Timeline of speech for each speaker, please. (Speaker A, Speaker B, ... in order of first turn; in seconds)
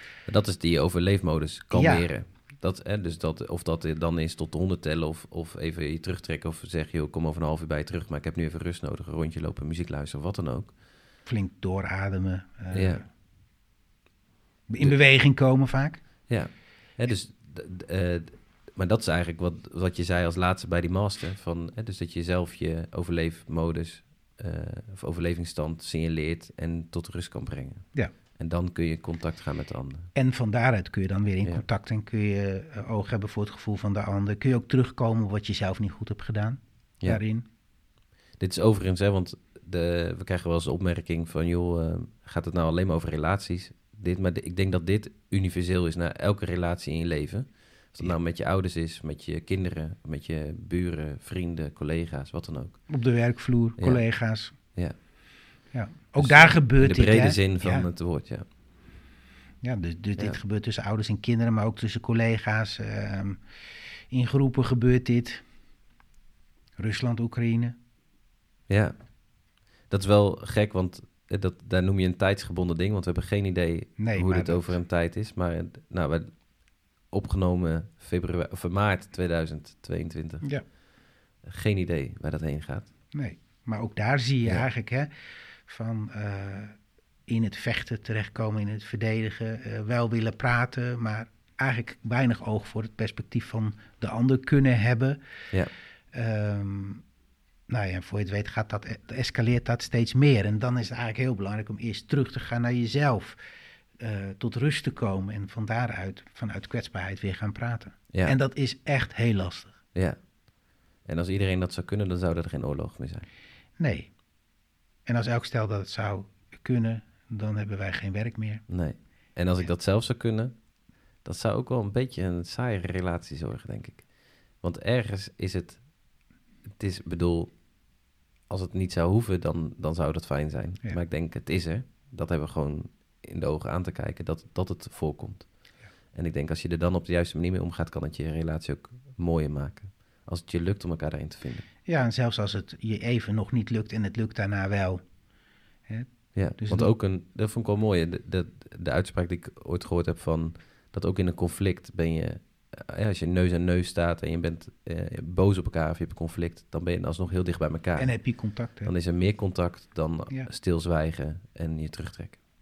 Speaker A: 0.3-10.8, 12.7-13.0, 16.3-30.1, 38.4-52.8, 53.8-54.0, 56.2-58.5, 68.7-68.9, 69.9-76.5, 77.1-80.5, 81.4-82.9, 108.1-108.4, 110.0-110.2, 111.0-113.3, 118.7-120.6, 121.2-125.8, 126.8-127.6, 128.5-135.5, 136.1-141.7, 146.3-158.1, 158.8-162.4
Speaker B: 1.7-2.1, 11.3-13.0, 14.7-16.0, 30.1-37.4, 52.9-54.5, 55.7-57.9, 59.6-63.4, 64.1-65.4, 66.8-67.8, 74.0-74.8, 83.1-85.1, 85.7-95.2, 96.1-97.0, 97.7-103.4, 104.0-109.8, 113.8-114.1, 115.1-118.6, 141.9-145.0, 145.9-146.9, 158.0-158.9